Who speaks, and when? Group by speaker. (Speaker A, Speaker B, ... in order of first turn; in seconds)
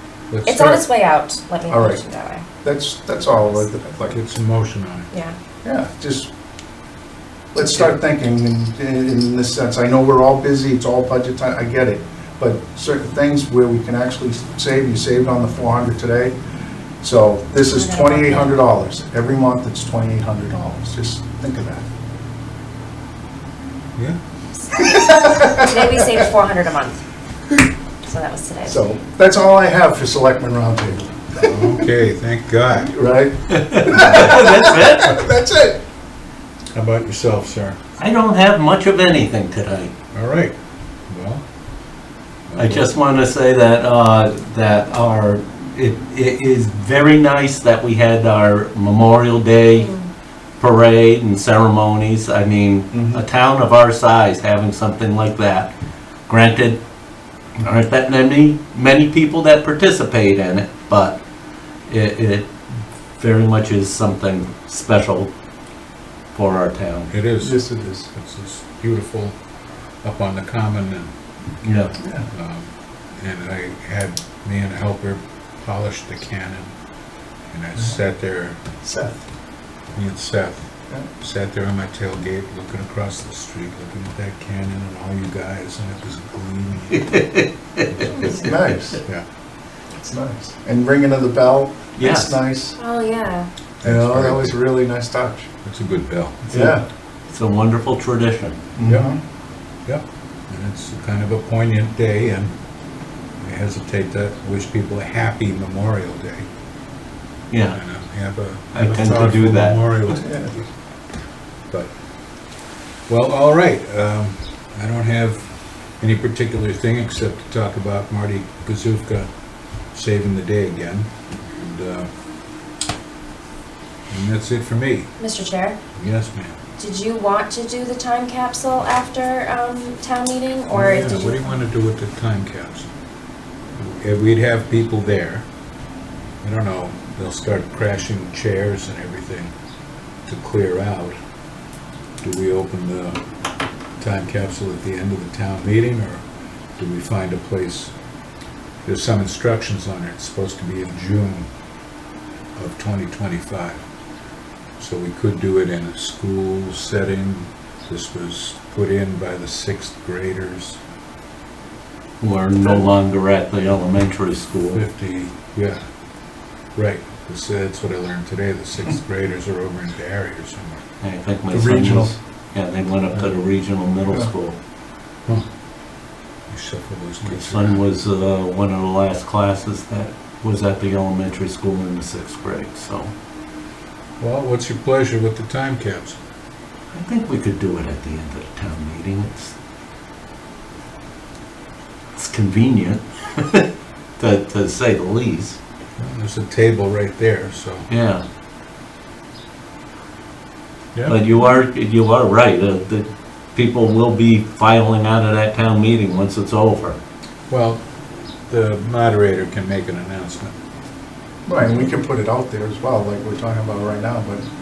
Speaker A: 0.3-0.8, 4.1-5.1, 31.3-32.9, 36.7-37.8, 40.1-40.5, 41.1-41.4, 42.5-42.9, 67.1-67.6, 68.1-69.3, 70.0-71.1, 72.3-76.7, 77.5-78.6, 79.9-87.2, 87.9-88.3, 93.8-94.6, 95.6-96.4, 98.8-99.1, 99.8-102.5, 103.4-106.5, 107.7-110.7, 113.1-115.5, 116.0-119.3, 119.9-122.1, 124.1-125.1, 126.0-126.5, 130.7-132.9, 133.8-135.5, 136.4-139.5, 140.2-141.2, 142.2-143.2, 144.0-146.2, 146.8-147.9, 148.8-151.5, 152.6-153.8, 154.8-160.8, 164.7-165.8, 166.7-170.8, 176.5-177.8, 184.2-186.2, 196.0-197.9, 207.5-207.8, 208.5-210.5
Speaker B: 0.4-2.4, 3.2-3.6, 5.1-5.4, 17.7-18.6, 24.6-27.0, 28.0-28.8, 49.7-50.1, 92.8-93.5, 125.2-125.8, 126.8-131.6
Speaker C: 1.7-2.0, 2.6-4.2, 5.6-6.3, 7.5-16.3, 17.0-21.8, 24.8-25.9, 28.6-31.8, 32.8-35.8, 52.9-53.2, 67.4-68.1, 72.0-72.3, 78.8-79.2, 88.1-89.0, 90.0-92.7, 93.8-95.5, 96.5-96.8, 98.8-99.2, 110.2-110.5, 171.5-172.1, 211.4-214.5
Speaker D: 33.6-35.2, 38.0-39.9, 42.6-49.9, 50.6-55.7, 56.3-56.8, 57.6-61.2, 61.9-65.3, 66.3-67.1, 71.6-71.9, 87.0-88.7, 92.0-92.4, 96.5-98.6, 107.5-107.8, 108.7-109.8, 162.2-164.8, 171.0-174.6, 177.2-183.1, 186.9-189.5, 192.1-195.6, 197.9-198.2, 201.1-207.0